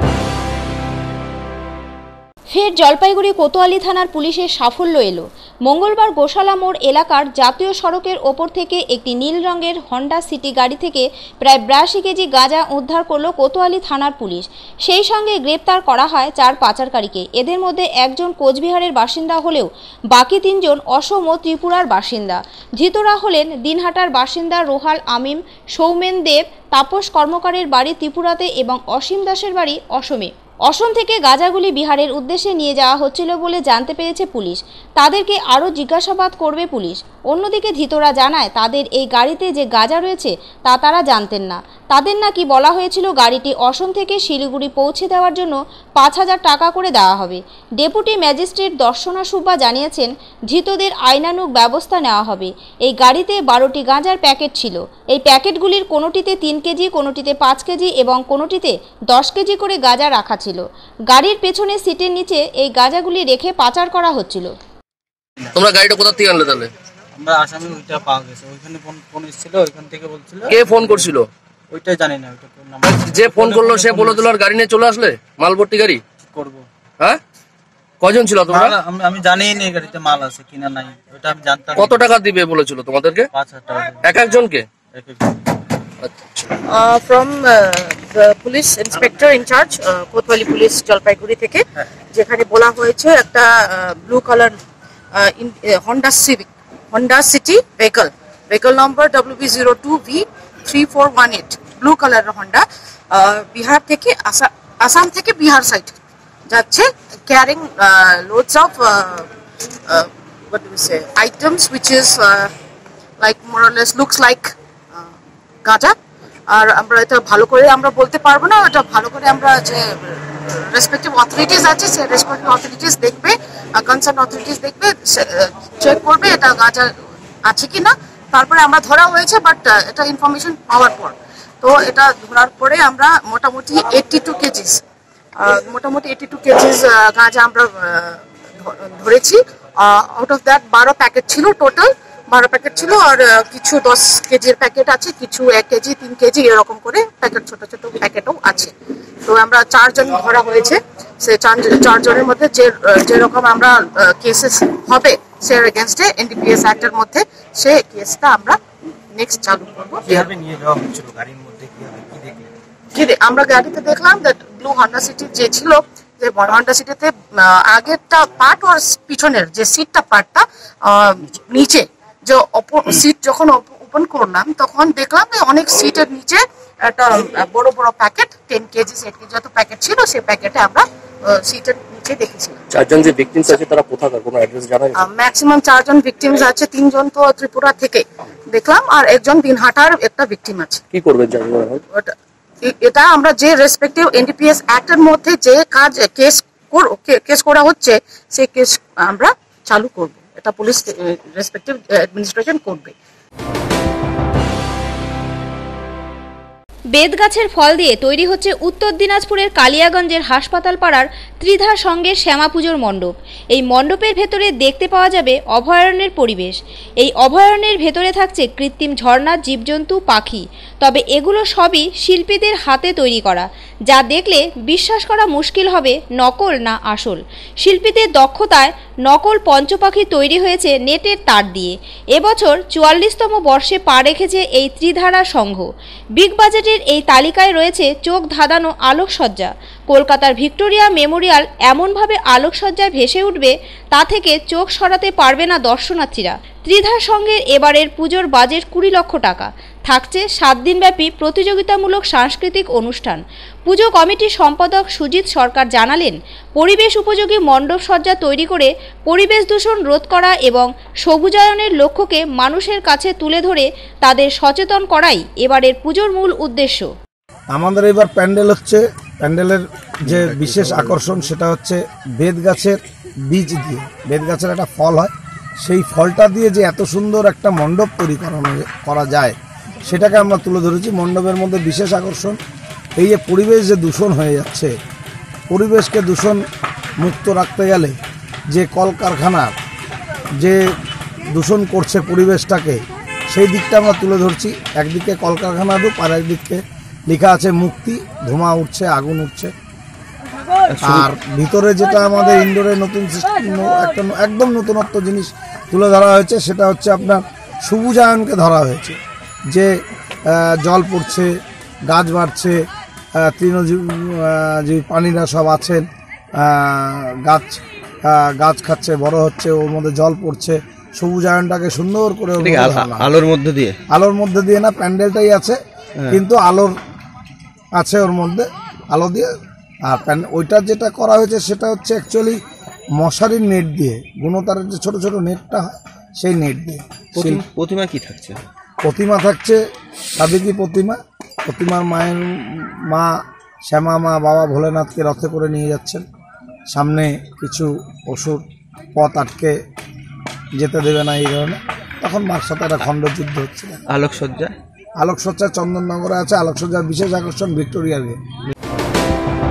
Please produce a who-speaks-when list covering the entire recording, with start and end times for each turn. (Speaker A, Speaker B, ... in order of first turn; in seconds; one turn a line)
Speaker A: 2.5-64.5
Speaker B: 65.5-66.7
Speaker C: 67.2-70.5
Speaker B: 70.5-71.2
Speaker C: 71.7-74.0
Speaker B: 72.8-76.0
Speaker C: 76.3-76.6
Speaker B: 78.0-78.8
Speaker C: 78.5-81.9
Speaker B: 81.7-83.3
Speaker C: 83.3-83.9
Speaker B: 84.0-84.7
Speaker C: 84.9-85.2
Speaker B: 86.0-86.5
Speaker D: 86.7-94.5
Speaker D: 95.1-106.0
Speaker D: 106.5-109.3
Speaker D: 109.9-112.5
Speaker D: 113.2-115.1
Speaker D: 115.6-116.0
Speaker D: 116.5-126.9
Speaker D: 127.4-134.8
Speaker D: 135.4-148.7
Speaker D: 149.2-158.6
Speaker D: 159.1-160.3
Speaker C: 160.1-162.5
Speaker D: 162.9-182.6
Speaker B: 182.7-185.0
Speaker D: 184.9-190.8
Speaker B: 190.9-191.8
Speaker D: 191.9-202.9
Speaker A: 206.9-266.9
Speaker E: 267.5-272.8
Speaker F: 270.1-271.2
Speaker E: 273.3-275.1
Speaker E: 275.6-279.3
Speaker E: 279.9-282.4
Speaker E: 283.0-284.7
Speaker E: 285.5-286.4
Speaker E: 287.0-288.0
Speaker E: 288.5-289.5
Speaker E: 291.3-299.5
Speaker E: 300.8-309.0
Speaker E: 309.5-311.3
Speaker E: 311.9-312.6
Speaker E: 313.2-315.9
Speaker E: 316.4-323.1
Speaker F: 322.4-323.8
Speaker E: 323.9-325.6
Speaker E: 326.1-326.7
Speaker E: 327.8-329.3
Speaker E: 329.9-332.4
Speaker E: 332.9-335.7
Speaker E: 336.2-337.4
Speaker F: 337.1-338.4
Speaker E: 338.8-339.6
Speaker E: 340.2-346.0
Speaker E: 346.7-348.4
Speaker E: 348.9-349.6
Speaker E: 350.6-353.8
Speaker F: 353.9-354.5
Speaker E: 355.0-358.2